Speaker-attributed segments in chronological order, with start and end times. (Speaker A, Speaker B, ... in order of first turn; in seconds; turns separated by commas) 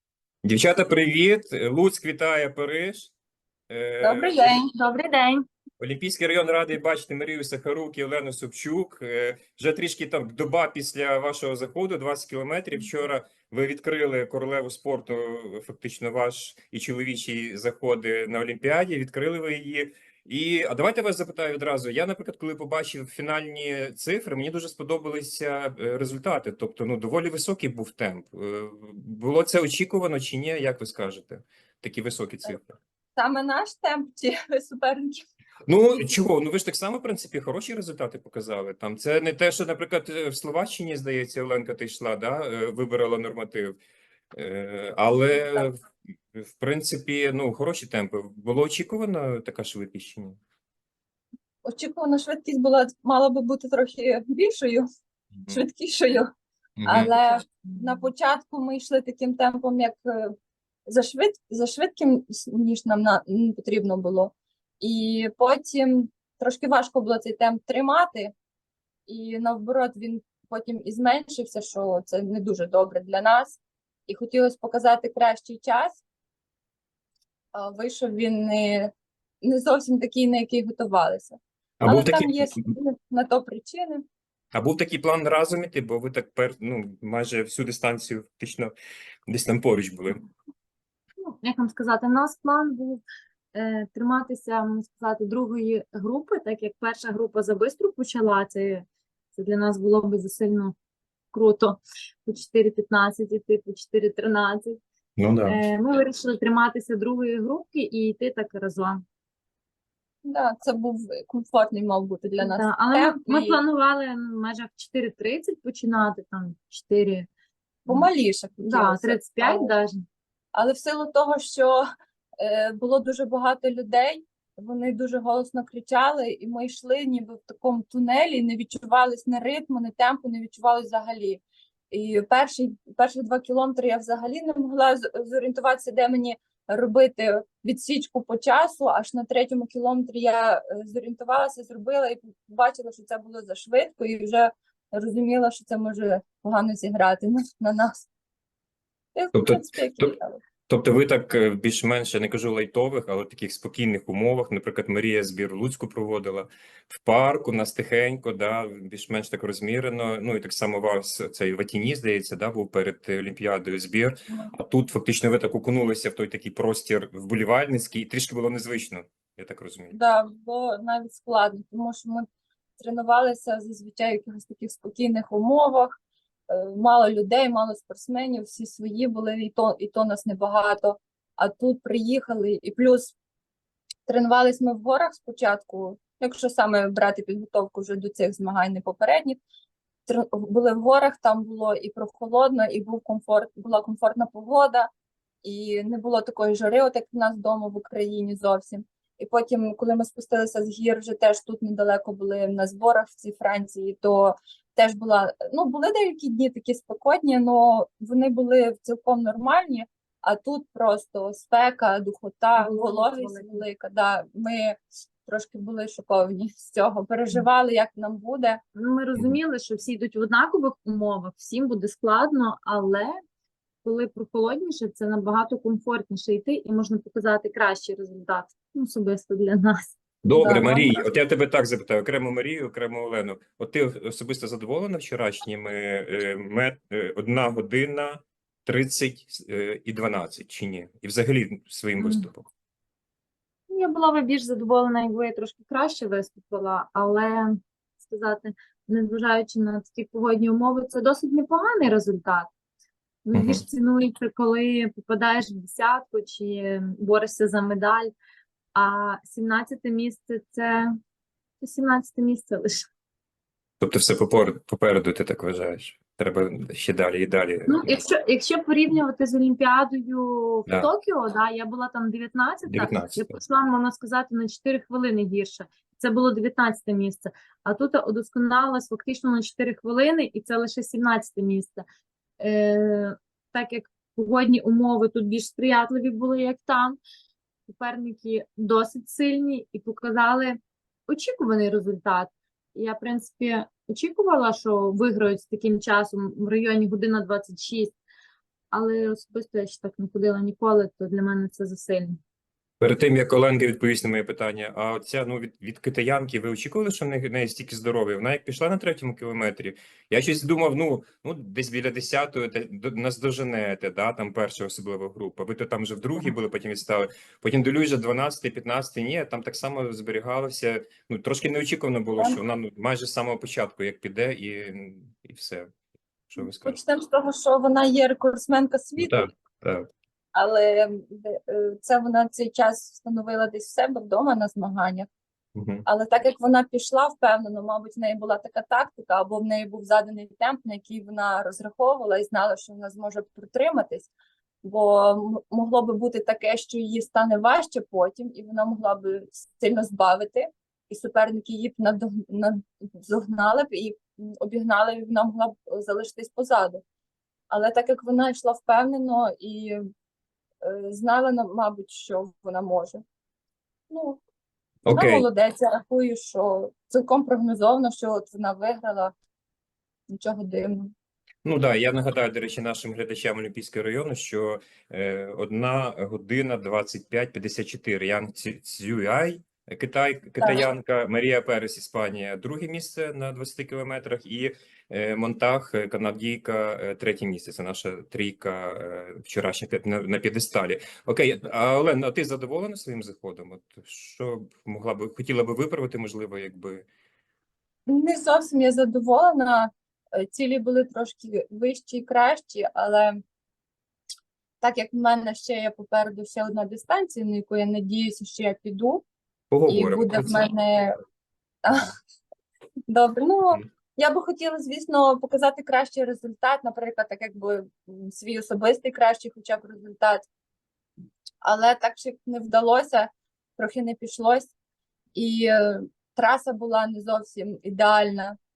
Speaker A: 0.4-3.1, Speaker A: 3.7-4.5, Speaker B: 4.0-4.7, Speaker C: 4.7-5.4, Speaker A: 5.8-32.8, Speaker B: 33.1-35.2, Speaker A: 35.7-43.8, Speaker A: 44.3-45.8, Speaker A: 46.3-50.4, Speaker B: 51.6-54.8, Speaker B: 55.5-56.3, Speaker A: 56.8-57.1, Speaker B: 56.8-60.3, Speaker B: 60.9-68.3, Speaker B: 69.1-76.0, Speaker B: 77.5-78.9, Speaker B: 79.4-84.0, Speaker A: 81.8-82.7, Speaker A: 84.5-88.7, Speaker A: 89.3-90.2, Speaker C: 91.2-93.0, Speaker C: 93.5-100.7, Speaker C: 101.3-104.8, Speaker A: 105.2-105.6, Speaker C: 105.4-109.0, Speaker B: 110.2-113.6, Speaker C: 112.4-117.3, Speaker B: 117.9-119.7, Speaker C: 118.7-119.9, Speaker B: 120.5-121.8, Speaker B: 122.4-148.1, Speaker B: 149.1-150.4, Speaker A: 149.3-150.1, Speaker A: 150.7-169.9, Speaker B: 169.9-172.2, Speaker B: 172.8-176.0, Speaker B: 176.5-183.1, Speaker B: 184.1-189.4, Speaker B: 190.1-194.9, Speaker B: 195.4-218.6, Speaker C: 212.6-213.6, Speaker C: 218.7-223.1, Speaker C: 223.8-230.9, Speaker A: 230.2-242.4, Speaker B: 230.3-231.0, Speaker C: 242.0-242.3, Speaker C: 243.7-252.5, Speaker C: 253.2-258.1, Speaker A: 253.3-253.6, Speaker C: 258.7-260.9, Speaker C: 261.6-262.9, Speaker A: 263.8-268.0, Speaker C: 267.7-281.8, Speaker A: 272.7-273.4, Speaker C: 282.4-287.0, Speaker C: 287.7-297.9, Speaker C: 298.7-302.2, Speaker A: 302.8-325.7, Speaker A: 326.3-326.8, Speaker B: 326.4-329.3, Speaker A: 329.0-329.9, Speaker B: 330.3-335.1, Speaker A: 335.6-335.8, Speaker B: 335.9-344.1, Speaker B: 344.6-356.8, Speaker B: 357.5-359.8, Speaker B: 360.6-363.0, Speaker B: 363.9-364.2, Speaker A: 364.9-365.2, Speaker B: 364.9-369.1, Speaker B: 370.1-370.9, Speaker A: 371.4-396.8, Speaker B: 397.9-403.2, Speaker B: 404.6-409.0, Speaker A: 409.5-410.5, Speaker B: 409.7-410.9, Speaker B: 411.6-411.9, Speaker B: 412.9-420.2, Speaker B: 421.4-424.5, Speaker B: 425.1-428.4